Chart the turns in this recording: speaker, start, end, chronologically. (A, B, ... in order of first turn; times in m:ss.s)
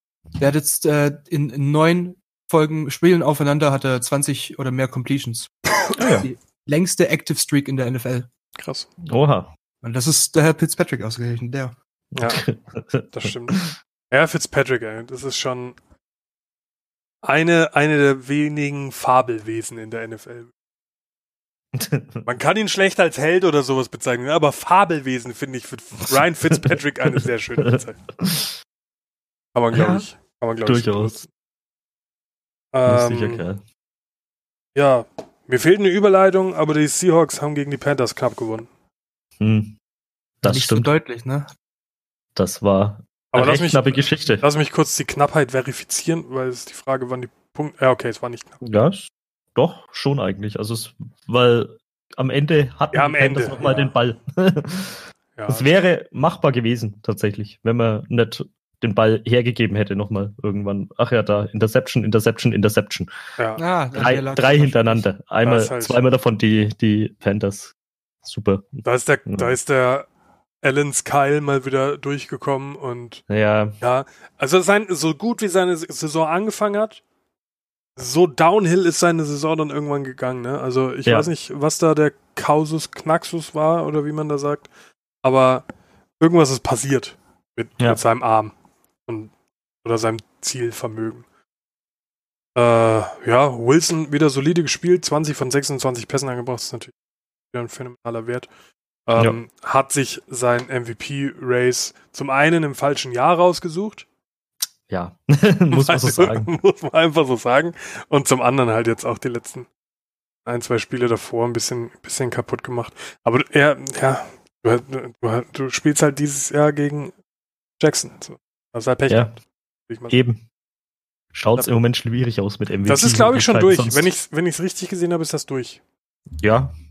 0:00.4-0:08.3 A
0:06.0-0:06.3 B
0:08.6-0:08.9 C
0:09.0-0:09.5 B
0:09.8-0:11.7 A
0:12.1-0:13.7 B
0:12.2-0:12.4 C
0:13.1-0:15.8 C
0:17.2-0:20.5 C
0:21.7-0:22.2 B
0:22.2-0:28.0 C
0:26.6-0:28.6 B
0:29.5-0:31.3 C
0:29.7-0:30.1 B
0:30.6-0:31.2 B
0:32.7-0:33.4 C
0:32.8-0:33.6 B
0:34.7-0:38.7 C
0:39.4-0:39.7 B
0:40.4-0:40.9 B
0:40.4-0:41.5 A
0:42.4-0:44.4 B
0:43.3-0:48.6 C
0:48.6-1:03.1 B
0:52.9-0:53.7 C
0:53.6-0:53.8 A
0:55.4-0:55.7 C
1:03.4-1:03.6 C
1:03.6-1:05.0 A
1:03.9-1:07.7 B
1:05.4-1:06.0 C
1:08.2-1:09.5 B
1:08.8-1:10.1 C
1:10.6-1:13.2 C
1:13.3-1:13.8 B
1:13.8-1:17.0 C
1:18.0-1:24.7 C
1:21.0-1:21.3 B
1:25.2-1:25.6 C
1:26.2-1:28.5 C
1:29.0-1:29.3 C
1:29.8-1:31.2 C
1:32.5-1:36.9 C
1:37.5-1:38.5 C
1:39.0-1:44.0 C
1:44.9-1:46.5 B
1:45.7-1:49.7 C
1:50.4-1:57.1 C
1:57.8-2:00.2 C
1:59.1-1:59.3 B
2:00.1-2:00.4 B
2:01.3-2:04.1 B
2:02.8-2:05.8 C
2:06.4-2:06.7 B